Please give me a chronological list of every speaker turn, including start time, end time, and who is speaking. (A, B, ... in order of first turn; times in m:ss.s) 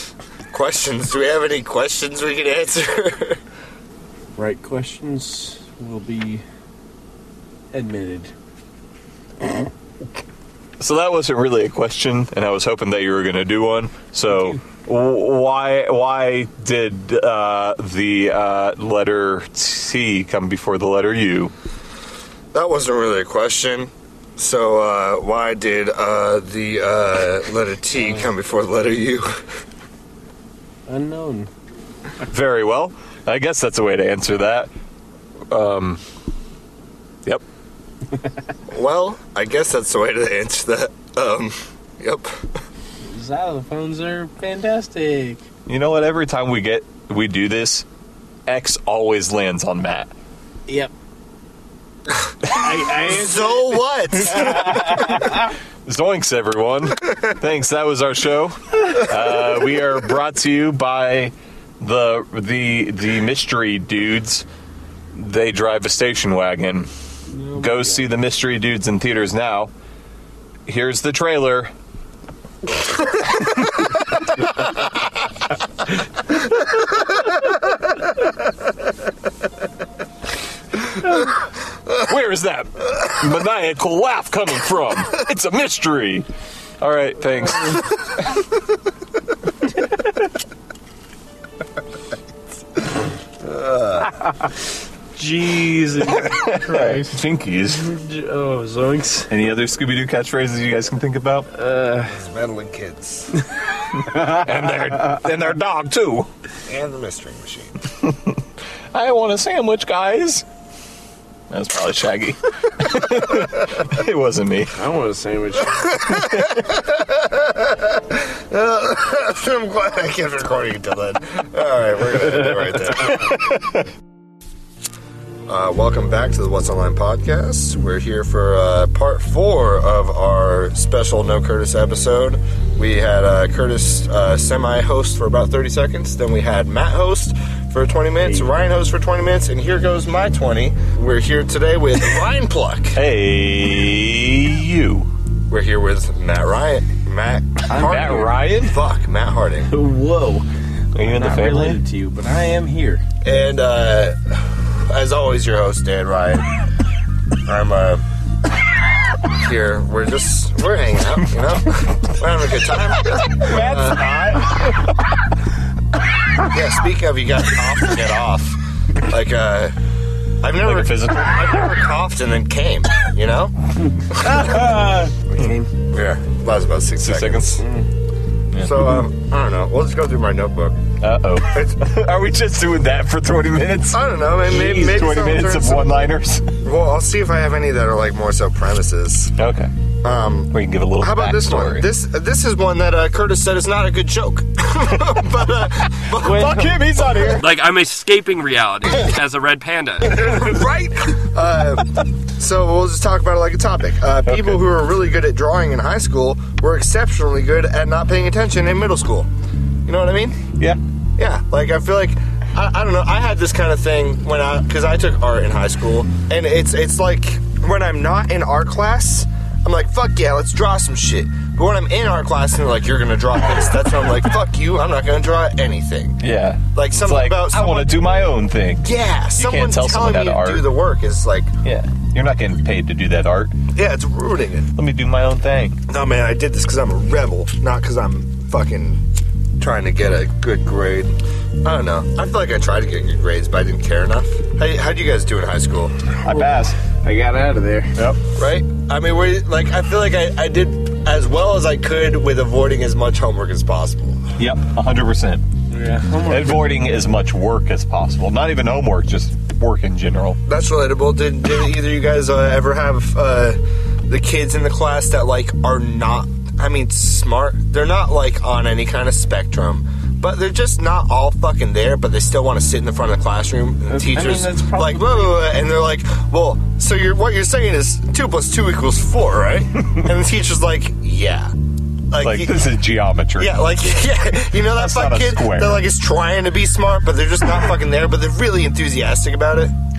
0:00.5-0:03.4 A
0:04.4-0:06.4 B
0:07.7-0:08.3 B
0:10.8-0:21.5 C
0:14.3-0:14.6 B
0:22.5-0:29.4 A
0:28.0-0:28.3 B
0:30.9-0:31.5 B
0:32.3-0:34.7 C
0:35.5-0:36.0 C
0:38.7-0:42.6 A
0:43.0-0:45.4 B
0:45.7-0:47.8 C
0:48.5-0:50.1 C
0:52.4-0:55.5 B
0:52.9-0:54.8 A
0:55.0-1:04.4 C
1:05.1-1:06.9 C
1:07.3-1:08.1 B
1:07.6-1:09.7 C
1:10.7-1:11.7 C
1:22.0-1:26.3 C
1:26.8-1:28.3 C
1:33.4-1:34.1 A
1:35.2-1:39.3 B
1:36.1-1:37.9 C
1:39.3-1:41.5 C
1:41.5-1:42.1 B
1:42.1-1:43.4 A
1:44.0-1:46.3 C
1:44.1-1:44.4 B
1:46.6-1:47.8 A
1:48.9-1:50.4 C
1:51.5-1:54.7 C
1:54.7-1:55.9 B
1:55.7-2:03.3 A
1:56.2-1:56.5 C
2:03.0-2:03.8 C
2:05.5-2:23.0 A
2:22.9-2:25.1 C
2:25.5-2:29.7 A
2:27.7-2:28.3 B
2:27.7-2:28.8 C
2:29.7-2:30.5 B
2:30.9-2:31.8 C
2:31.0-2:33.0 B
2:33.2-2:36.5 A
2:37.4-2:38.0 A
2:39.2-2:44.1 A
2:43.4-2:44.7 B
2:43.4-2:44.0 C
2:46.4-2:49.8 A
2:50.4-2:53.5 A
2:50.6-2:51.5 C
2:53.9-2:55.7 B
2:55.9-2:57.6 A
2:57.0-2:57.6 C
2:57.6-2:57.9 B
2:58.5-2:58.9 C
2:58.6-3:00.8 A
3:01.0-3:06.6 C
3:01.5-3:01.8 A
3:03.9-3:06.1 A
3:06.6-3:09.4 A
3:09.4-3:09.7 C
3:10.0-3:17.3 A
3:10.5-3:11.9 C
3:15.9-3:17.4 C
3:16.2-3:16.8 B
3:17.4-3:20.3 D
3:20.2-3:29.3 A
3:24.2-3:24.6 C
3:29.8-3:30.5 A
3:31.2-3:48.0 A
3:46.2-3:50.6 C
3:48.8-3:51.5 A
3:51.6-3:53.5 C
3:53.7-3:54.7 A
3:54.8-3:55.8 C
3:55.9-3:59.0 A
3:59.6-4:06.0 A
4:06.2-4:08.0 B
4:06.2-4:06.8 C
4:08.0-4:08.2 C
4:08.3-4:14.2 A
4:14.4-4:15.4 C
4:15.7-4:16.7 B
4:16.3-4:20.4 C
4:20.4-4:41.6 A
4:33.9-4:35.4 B
4:42.1-4:42.7 A
4:42.2-4:43.6 C
4:43.4-4:49.7 A
4:44.7-4:45.8 C